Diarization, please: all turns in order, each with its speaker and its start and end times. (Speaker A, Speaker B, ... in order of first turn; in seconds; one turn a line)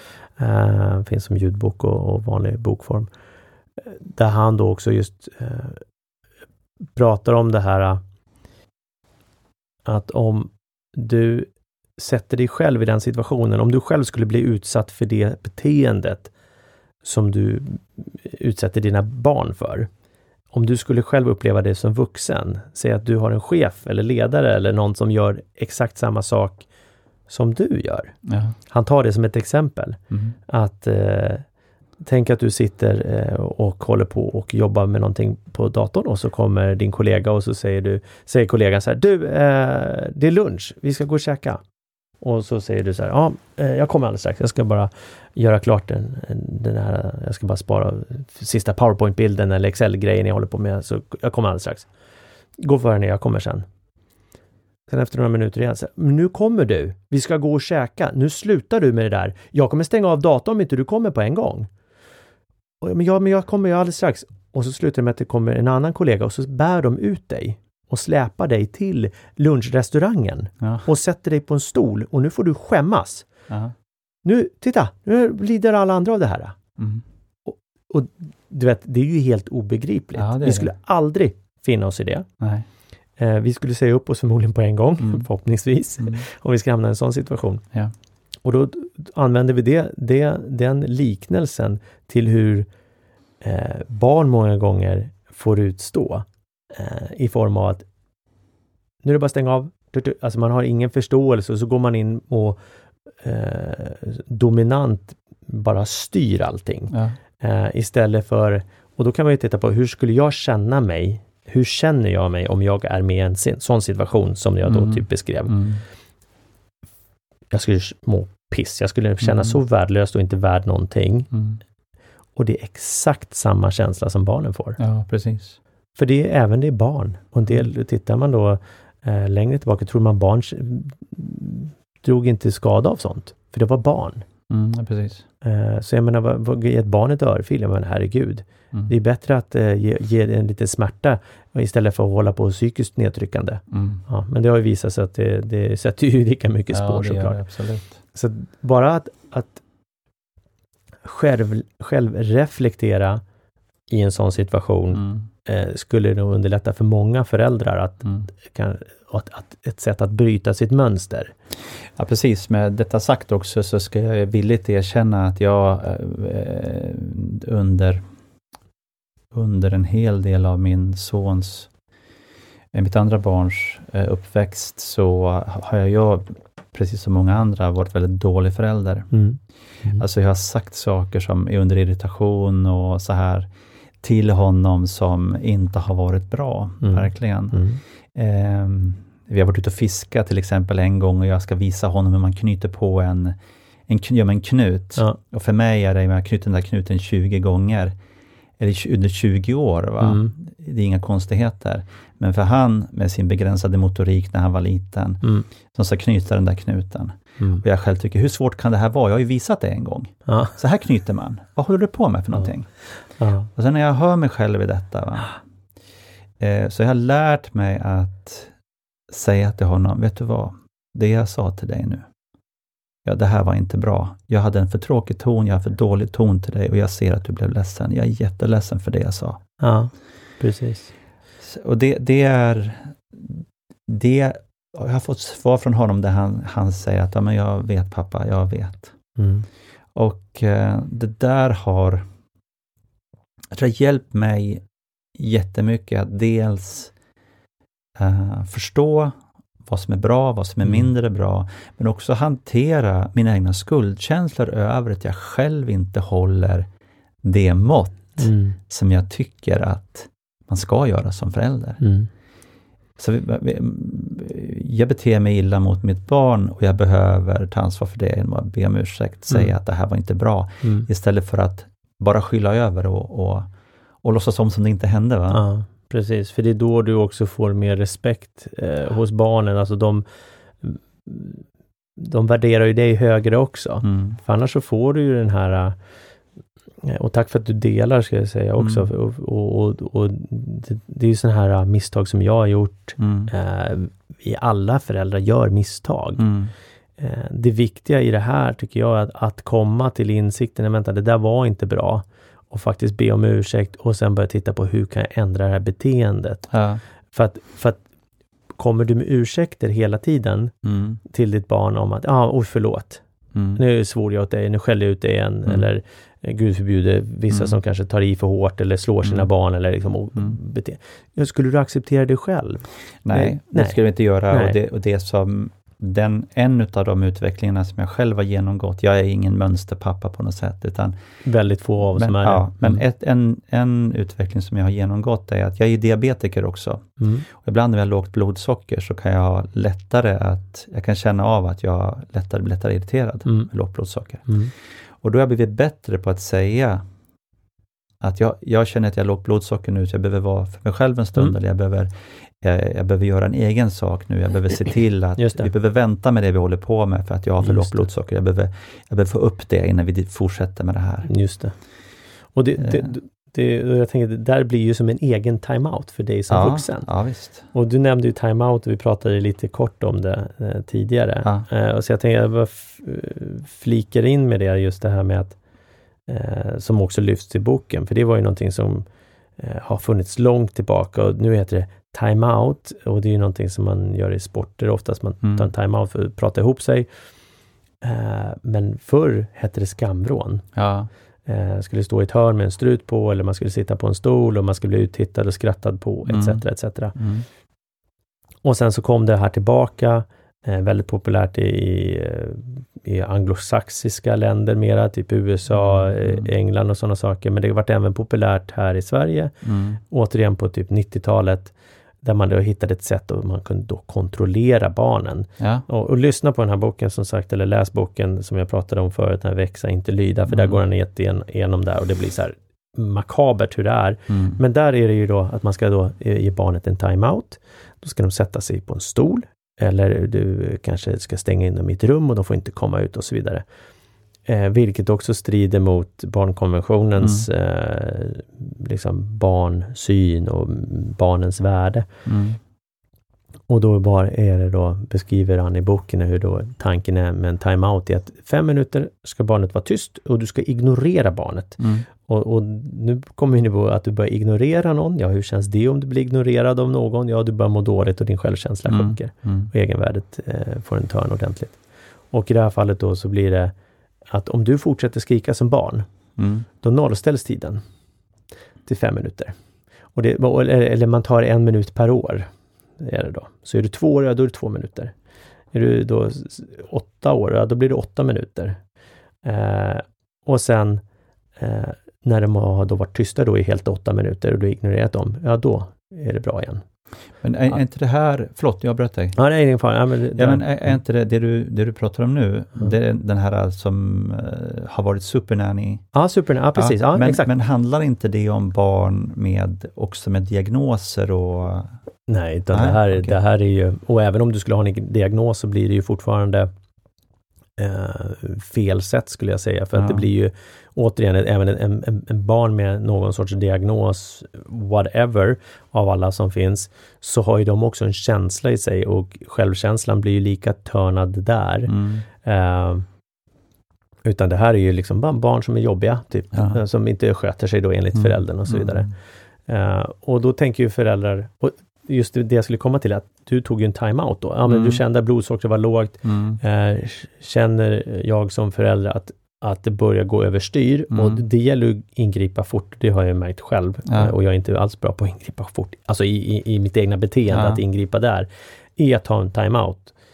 Speaker A: 0.4-3.1
Speaker A: 3.8-5.8
Speaker A: 6.9-8.0
Speaker A: 9.8-16.3
Speaker A: 17.0-19.9
Speaker A: 20.5-26.6
Speaker A: 27.3-28.2
Speaker B: 28.3-28.5
Speaker A: 28.7-31.4
Speaker A: 32.0-41.6
Speaker A: 42.2-51.9
Speaker A: 52.6-53.6
Speaker A: 54.9-61.7
Speaker A: 62.8-73.3
Speaker B: 70.6-70.8
Speaker B: 73.5-73.7
Speaker A: 74.2-76.5
Speaker B: 76.8-77.0
Speaker A: 77.5-82.3
Speaker B: 80.2-80.7
Speaker B: 82.4-82.7
Speaker A: 83.2-87.6
Speaker B: 85.0-85.2
Speaker A: 88.4-92.7
Speaker A: 93.4-97.8
Speaker A: 99.0-102.6
Speaker A: 103.2-115.5
Speaker B: 106.9-107.2
Speaker B: 114.7-115.8
Speaker A: 117.5-121.3
Speaker B: 119.2-119.6
Speaker B: 121.3-121.6
Speaker A: 122.3-124.8
Speaker B: 124.8-125.6
Speaker A: 126.0-134.2
Speaker B: 134.5-135.2
Speaker A: 135.4-147.4
Speaker B: 143.7-144.0
Speaker B: 146.7-148.0
Speaker A: 148.1-149.6
Speaker A: 151.0-153.2
Speaker A: 153.9-161.3
Speaker B: 154.9-155.3
Speaker B: 161.9-168.0
Speaker B: 169.3-171.7
Speaker B: 172.7-179.1
Speaker A: 179.1-180.0
Speaker B: 179.9-183.5
Speaker B: 184.0-187.6
Speaker A: 186.8-187.8
Speaker B: 188.1-193.3
Speaker B: 193.9-197.9
Speaker B: 198.6-212.7
Speaker A: 200.0-200.3
Speaker A: 210.3-210.5
Speaker A: 213.1-213.5
Speaker B: 213.5-215.3
Speaker B: 216.4-218.5
Speaker B: 219.1-222.0
Speaker B: 223.0-229.4
Speaker A: 229.6-230.9
Speaker B: 231.4-238.9
Speaker A: 239.2-239.5
Speaker B: 239.9-242.1
Speaker B: 243.5-244.6
Speaker B: 245.2-246.9
Speaker B: 247.9-256.7
Speaker A: 250.6-250.9
Speaker B: 257.2-261.8
Speaker A: 258.2-258.6
Speaker A: 261.8-262.1
Speaker B: 263.0-273.5
Speaker A: 270.6-270.9
Speaker B: 274.0-275.4
Speaker A: 275.3-280.0
Speaker A: 280.6-281.4
Speaker A: 282.0-285.8
Speaker B: 283.8-284.2
Speaker A: 286.8-296.2
Speaker B: 288.6-288.9
Speaker B: 293.0-293.3
Speaker B: 296.2-296.5
Speaker A: 297.0-306.5
Speaker B: 306.5-306.8
Speaker A: 307.1-307.8
Speaker A: 308.6-310.5
Speaker B: 310.6-311.0
Speaker A: 311.0-313.0
Speaker B: 313.3-313.6
Speaker A: 313.6-323.8
Speaker B: 317.3-317.6
Speaker B: 323.0-330.9
Speaker A: 324.3-324.6
Speaker A: 331.2-332.8
Speaker B: 331.9-344.2
Speaker A: 337.0-337.2
Speaker A: 344.3-344.5
Speaker B: 345.0-346.8
Speaker B: 348.0-351.9
Speaker B: 352.4-361.1
Speaker A: 355.2-355.5
Speaker A: 357.4-357.9
Speaker A: 361.1-361.6
Speaker A: 362.3-366.9
Speaker B: 362.6-362.9
Speaker B: 366.3-367.5
Speaker A: 367.5-375.4
Speaker A: 376.1-378.9
Speaker A: 379.4-386.9
Speaker B: 385.2-385.5
Speaker A: 387.8-390.4
Speaker B: 390.5-390.9
Speaker A: 391.2-396.9
Speaker B: 396.1-397.2
Speaker A: 398.4-409.3
Speaker B: 405.5-406.3
Speaker B: 409.4-409.8
Speaker A: 409.9-433.4
Speaker B: 415.4-415.6
Speaker B: 420.3-420.6
Speaker B: 424.1-424.4
Speaker A: 434.3-441.9
Speaker B: 437.0-437.3
Speaker B: 442.1-442.4
Speaker A: 443.5-463.5
Speaker B: 451.6-451.9
Speaker B: 458.7-459.5
Speaker A: 464.1-465.9
Speaker B: 466.2-466.4
Speaker A: 466.6-467.6
Speaker A: 468.6-469.3
Speaker A: 469.9-474.9
Speaker A: 475.5-478.6
Speaker A: 479.2-480.8
Speaker A: 481.4-486.6
Speaker B: 487.2-489.2
Speaker A: 489.1-490.5
Speaker B: 490.1-495.9
Speaker A: 495.9-497.3
Speaker B: 496.5-501.7
Speaker A: 502.1-506.5
Speaker B: 502.5-503.2
Speaker A: 507.6-522.9
Speaker B: 509.7-510.1
Speaker B: 521.7-522.0
Speaker A: 524.0-528.9
Speaker B: 526.3-526.6
Speaker B: 527.9-528.9
Speaker A: 529.5-549.9
Speaker B: 534.5-534.8
Speaker B: 536.0-536.4
Speaker B: 540.9-541.2
Speaker B: 543.9-544.1
Speaker B: 547.3-547.6